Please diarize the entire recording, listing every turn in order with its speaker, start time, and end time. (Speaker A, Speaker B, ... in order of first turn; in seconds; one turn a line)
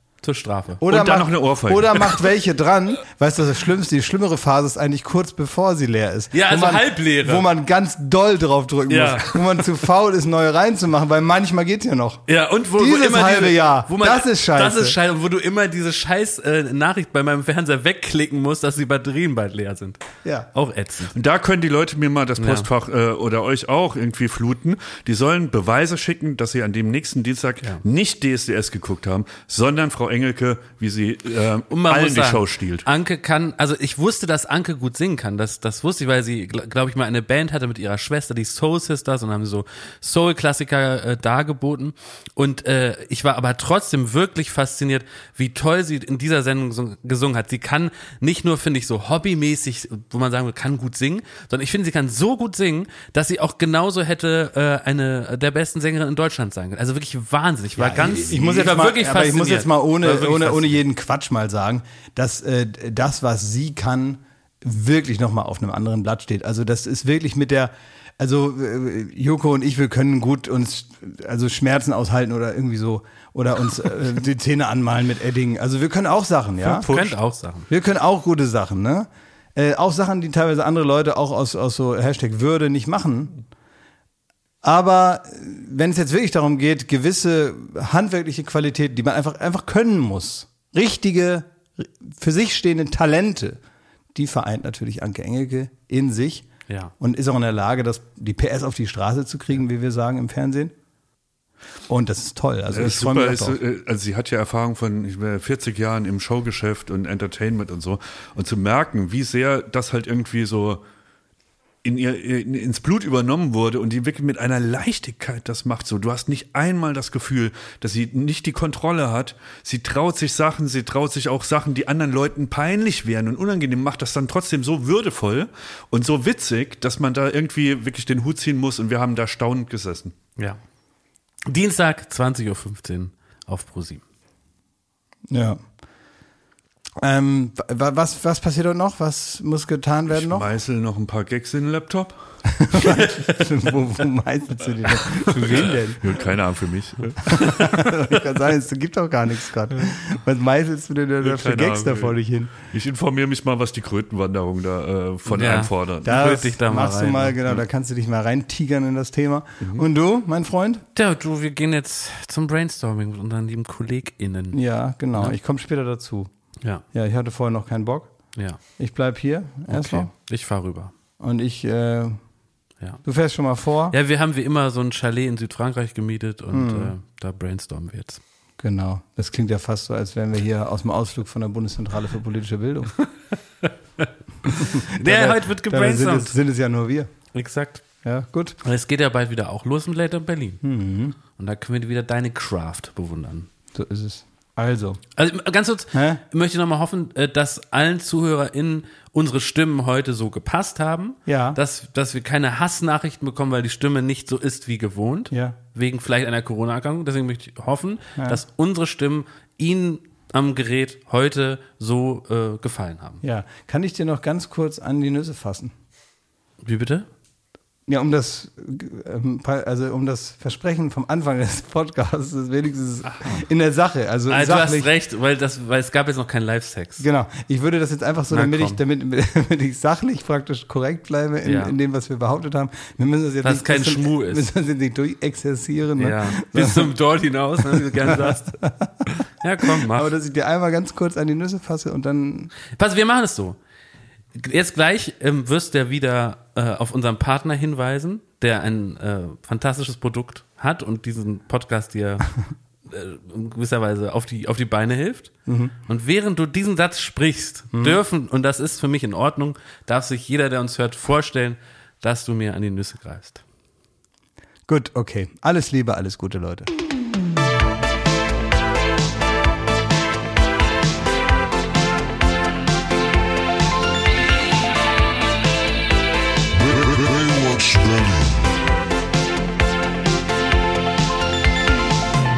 Speaker A: 0.2-0.8
Speaker B: 0.8-12.2
Speaker C: 0.9-2.1
Speaker A: 6.3-7.5
Speaker A: 8.9-9.3
Speaker A: 12.3-20.0
Speaker B: 12.7-14.9
Speaker A: 20.5-21.1
Speaker C: 21.1-32.9
Speaker A: 22.4-22.7
Speaker A: 31.7-60.8
Speaker B: 57.8-76.9
Speaker C: 76.7-77.2
Speaker A: 76.7-77.7
Speaker B: 77.7-83.4
Speaker B: 84.6-93.6
Speaker B: 94.1-96.5
Speaker B: 97.0-100.7
Speaker B: 101.9-103.6
Speaker C: 102.7-110.8
Speaker C: 111.8-130.1
Speaker A: 131.5-134.0
Speaker B: 135.3-135.6
Speaker B: 137.0-140.5
Speaker C: 140.1-142.2
Speaker B: 142.4-146.1
Speaker C: 145.3-147.9
Speaker B: 147.2-152.5
Speaker C: 151.2-152.2
Speaker C: 152.7-156.2
Speaker A: 155.3-157.3
Speaker B: 156.0-160.8
Speaker A: 160.9-164.6
Speaker B: 164.5-166.3
Speaker B: 166.9-168.1
Speaker B: 168.8-170.1
Speaker A: 169.7-170.9
Speaker B: 171.2-172.2
Speaker B: 173.0-173.9
Speaker A: 173.9-178.2
Speaker B: 176.5-176.9
Speaker B: 178.6-182.9
Speaker A: 184.5-186.3
Speaker B: 184.5-187.1
Speaker A: 187.3-187.8
Speaker B: 188.0-188.6
Speaker A: 188.6-190.6
Speaker B: 190.6-191.2
Speaker A: 191.3-193.5
Speaker B: 193.7-195.0
Speaker A: 195.2-213.2
Speaker B: 195.9-196.2
Speaker B: 201.2-201.6
Speaker B: 205.3-205.6
Speaker B: 208.2-208.4
Speaker B: 213.2-215.7
Speaker A: 216.6-217.1
Speaker B: 217.9-224.9
Speaker A: 224.3-227.1
Speaker B: 227.0-236.9
Speaker A: 228.3-228.8
Speaker A: 231.4-231.7
Speaker A: 233.4-234.5
Speaker A: 236.0-238.6
Speaker B: 237.7-239.1
Speaker A: 239.4-240.1
Speaker B: 239.6-242.5
Speaker A: 242.8-243.6
Speaker A: 244.3-252.3
Speaker A: 252.9-255.3
Speaker B: 255.5-255.7
Speaker A: 255.9-263.4
Speaker B: 257.7-258.0
Speaker B: 264.7-266.7
Speaker D: 276.5-278.7